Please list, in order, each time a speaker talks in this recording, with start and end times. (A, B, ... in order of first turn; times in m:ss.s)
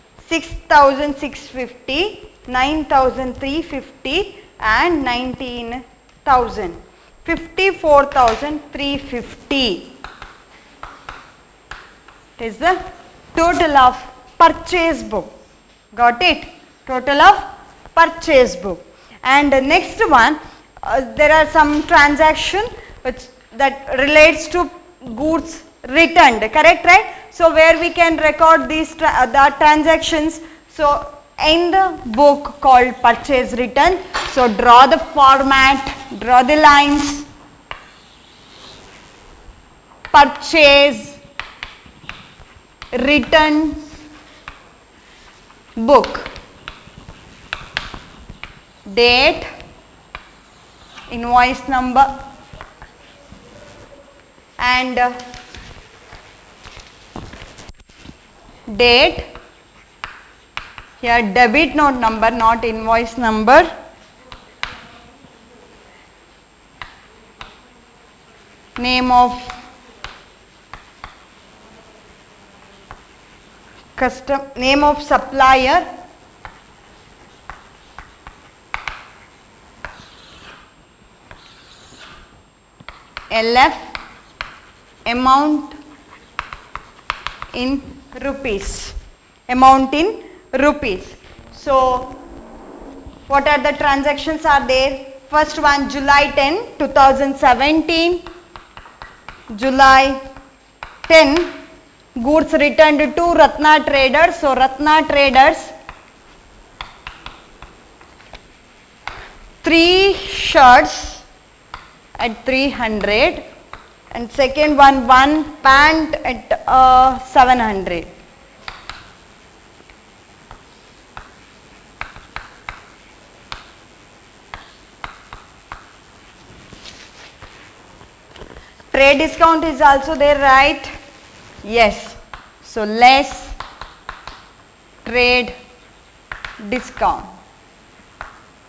0:00.2-0:10.0 A
0:12.4-0:12.8 A
0:13.3-0:15.3 A
0:15.9-0:37.2 A
0:40.1-0:41.2 A
0:42.9-0:43.9 A
0:45.8-0:46.3 A
0:48.9-0:49.5 A
0:51.1-0:52.1 A
0:54.6-0:55.2 A
0:58.7-0:59.3 A
1:01.0-1:03.7 A
1:08.8-1:09.5 A
1:14.0-1:15.8 A
1:23.3-1:23.9 A
1:25.0-1:25.8 A
1:27.5-1:28.9 A
1:29.5-1:32.1 A
1:33.3-1:38.2 A
1:39.5-1:40.2 A
1:41.1-1:41.6 A
1:42.2-1:45.7 A
1:49.6-1:51.2 A
1:52.2-1:53.4 A
1:54.1-1:58.1 A
2:08.9-2:10.9 A
2:11.6-2:13.6 A
2:15.0-2:15.5 A
2:16.6-2:17.3 A